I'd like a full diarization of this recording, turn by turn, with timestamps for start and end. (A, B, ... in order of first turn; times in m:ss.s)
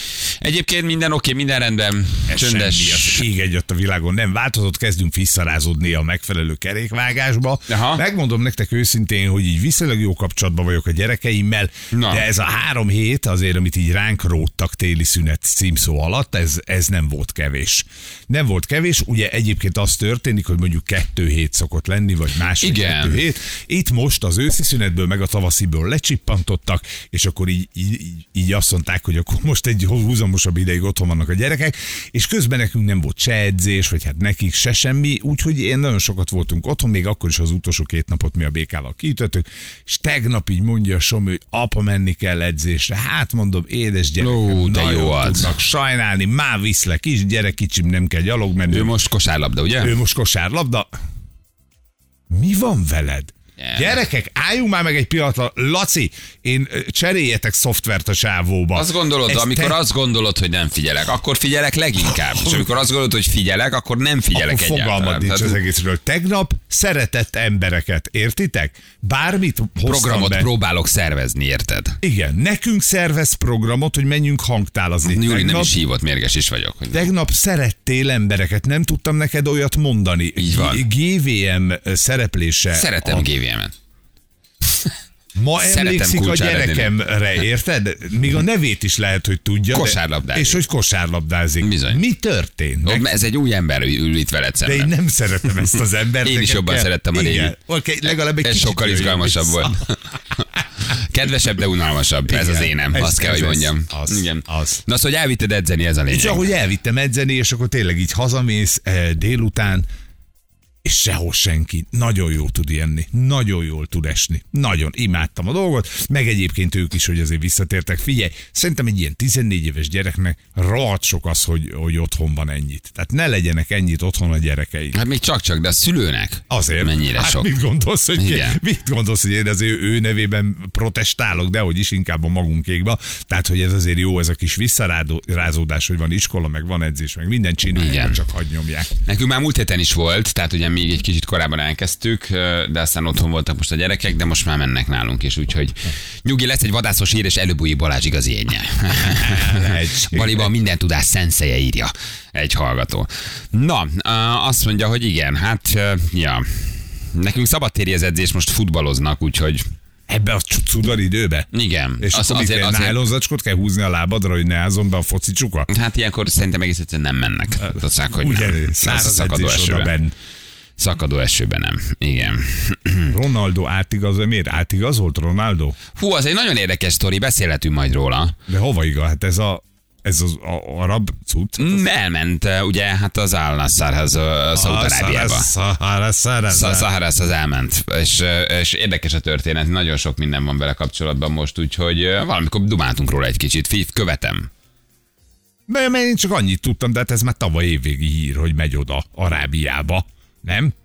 0:00.4-0:03.2 A
0:02.3-0:48.9 B
0:07.7-0:08.0 A
0:11.9-0:12.2 A
0:22.6-0:23.2 A
0:44.2-0:45.5 A
0:48.7-0:49.9 A
0:49.8-0:50.9 B
0:52.3-0:59.8 B
0:53.6-0:54.0 A
0:58.7-1:05.6 A
1:04.3-1:10.5 B
1:09.8-1:12.0 A
1:12.0-1:15.7 B
1:15.0-1:17.1 A
1:16.9-1:23.3 B
1:20.4-1:20.8 A
1:22.7-1:23.7 A
1:25.3-1:33.1 B
1:25.6-1:26.9 A
1:29.7-1:30.6 A
1:31.6-1:32.0 A
1:32.8-1:34.9 A
1:34.6-1:39.8 B
1:36.2-1:37.5 A
1:38.4-1:46.4 A
1:42.3-1:44.8 B
1:46.1-1:49.9 B
1:50.8-2:05.0 B
2:04.9-2:07.5 A
2:06.5-2:18.9 B
2:08.2-2:08.6 A
2:17.7-2:18.2 A
2:19.0-2:39.6 A
2:29.1-2:30.5 B
2:40.1-2:41.5 B
2:41.5-2:43.0 A
2:42.0-2:45.7 B
2:45.7-2:49.9 A
2:47.6-2:50.1 B
2:50.8-2:53.1 A
2:53.1-2:55.8 B
2:55.9-2:58.4 A
2:58.5-3:01.8 B
3:01.6-3:05.5 A
3:04.5-3:06.9 B
3:06.5-3:14.5 A
3:15.7-3:20.7 B